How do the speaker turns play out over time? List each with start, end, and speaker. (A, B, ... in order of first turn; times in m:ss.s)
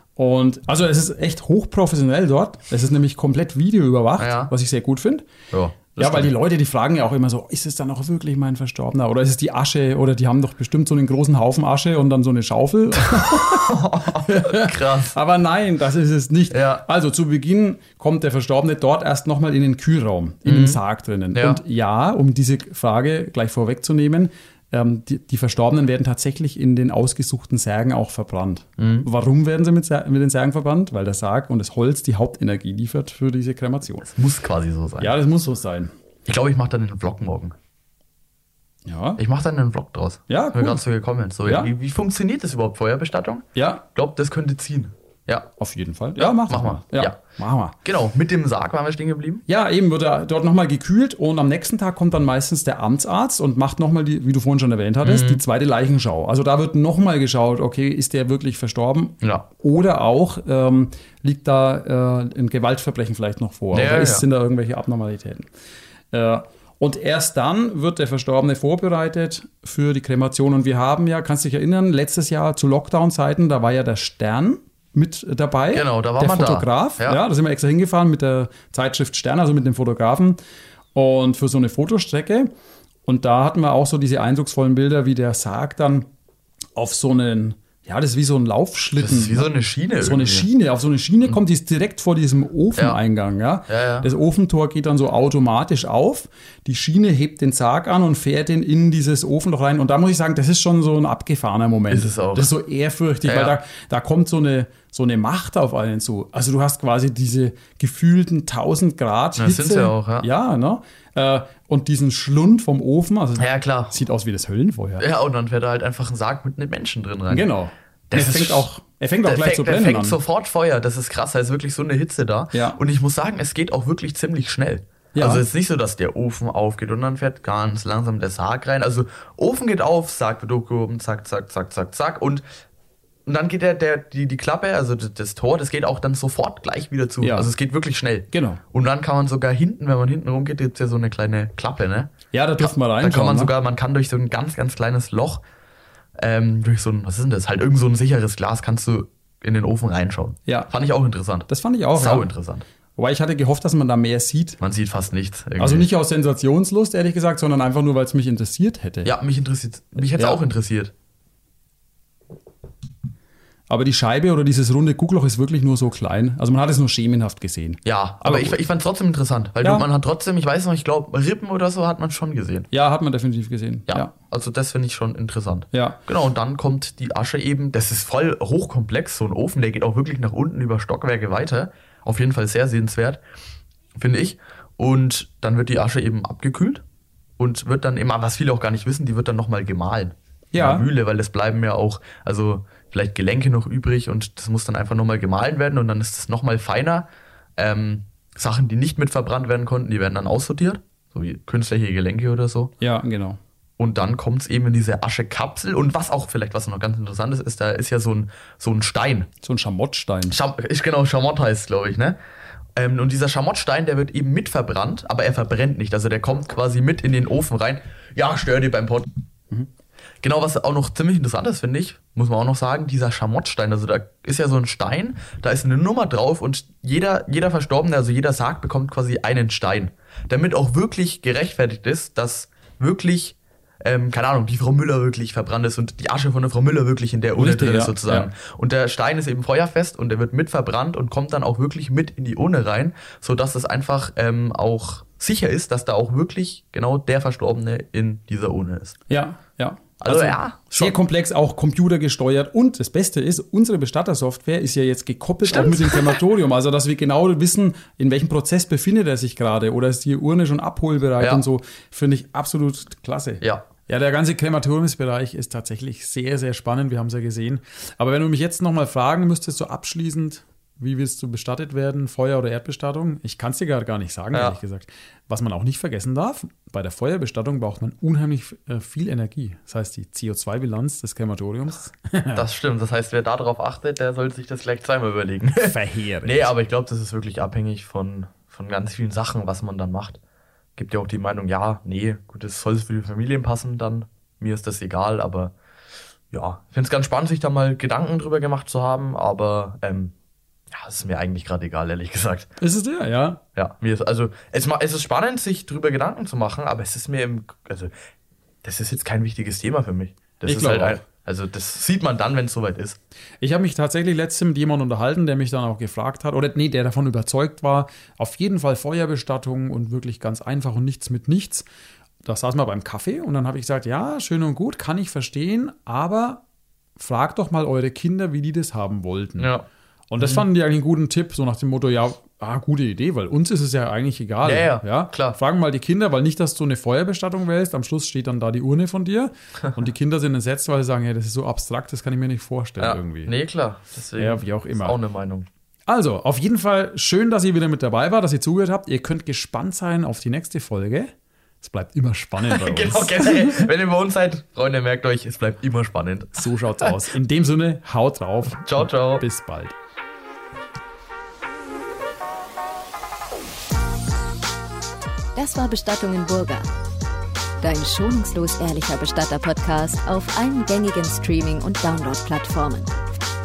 0:00.2-0:05.3 A
0:04.2-0:04.5 B
0:05.5-0:06.3 B
0:06.0-0:34.1 A
0:13.0-0:15.1 B
0:16.5-0:16.8 B
0:20.4-0:20.8 B
0:21.3-0:21.6 B
0:28.8-0:29.1 B
0:34.0-0:35.1 B
0:35.0-0:35.9 A
0:36.2-0:37.5 B
0:38.8-0:39.2 A
0:39.2-0:45.5 B
0:40.3-0:40.8 A
0:41.4-0:41.7 A
0:43.5-0:43.8 A
0:45.6-0:47.7 A
0:46.2-0:47.2 B
0:47.8-0:49.4 B
0:49.5-1:05.5 A
0:55.0-0:55.4 B
1:03.7-1:04.2 B
1:06.1-1:20.4 A
1:15.7-1:17.2 B
1:20.9-1:22.5 A
1:23.0-1:26.1 A
1:26.8-1:29.5 A
1:29.0-1:30.5 B
1:30.0-1:55.0 A
1:33.7-1:34.1 B
1:41.9-1:42.5 B
1:43.2-1:43.6 B
1:49.4-1:50.3 B
1:53.4-1:53.9 B
1:55.0-1:57.5 B
1:57.3-2:00.2 A
1:58.1-1:58.7 B
1:59.2-2:12.4 B
2:02.5-2:02.8 A
2:05.1-2:05.4 A
2:13.2-2:25.4 B
2:17.2-2:17.5 A
2:18.3-2:18.6 A
2:22.3-2:23.5 A
2:26.2-2:32.6 B
2:31.5-2:32.3 A
2:33.0-2:34.6 A
2:34.6-2:35.9 B
2:35.6-2:39.1 A
2:39.0-2:40.9 B
2:40.1-2:40.4 A
2:43.7-2:48.6 A
2:47.8-2:52.7 B
2:49.6-2:49.9 A
2:52.7-2:54.1 A
2:53.9-3:03.2 B
2:55.7-2:56.0 A
3:03.9-3:06.8 B
3:07.4-3:17.0 B
3:10.5-3:10.8 A
3:17.6-3:22.7 B
3:22.8-3:23.4 A
3:23.8-3:29.3 B
3:29.4-3:30.4 A
3:30.3-3:32.2 B
3:32.7-3:39.1 B
3:40.2-4:09.0 B
3:57.4-3:58.3 A
4:09.1-4:42.4 A
4:10.0-4:11.0 B
4:15.4-4:16.2 B
4:42.3-4:50.2 B
4:45.6-4:46.5 A
4:50.8-4:55.5 B
4:56.3-5:00.1 B
5:00.7-5:02.5 B
5:02.6-5:03.4 A
5:03.5-5:07.9 B
5:08.6-5:13.0 B
5:10.4-5:11.0 A
5:13.4-5:21.6 A
5:22.2-5:26.4 A
5:27.0-5:29.5 A
5:29.4-5:29.6 B
5:30.1-5:43.3 A
5:30.2-5:30.4 B
5:34.4-5:35.4 B
5:42.8-5:45.5 B
5:44.2-5:45.0 A
5:45.9-5:53.7 A
5:52.4-5:56.9 B
5:56.3-5:59.7 A
5:58.6-5:59.2 B
6:05.4-6:06.7 C
6:07.6-6:12.9 C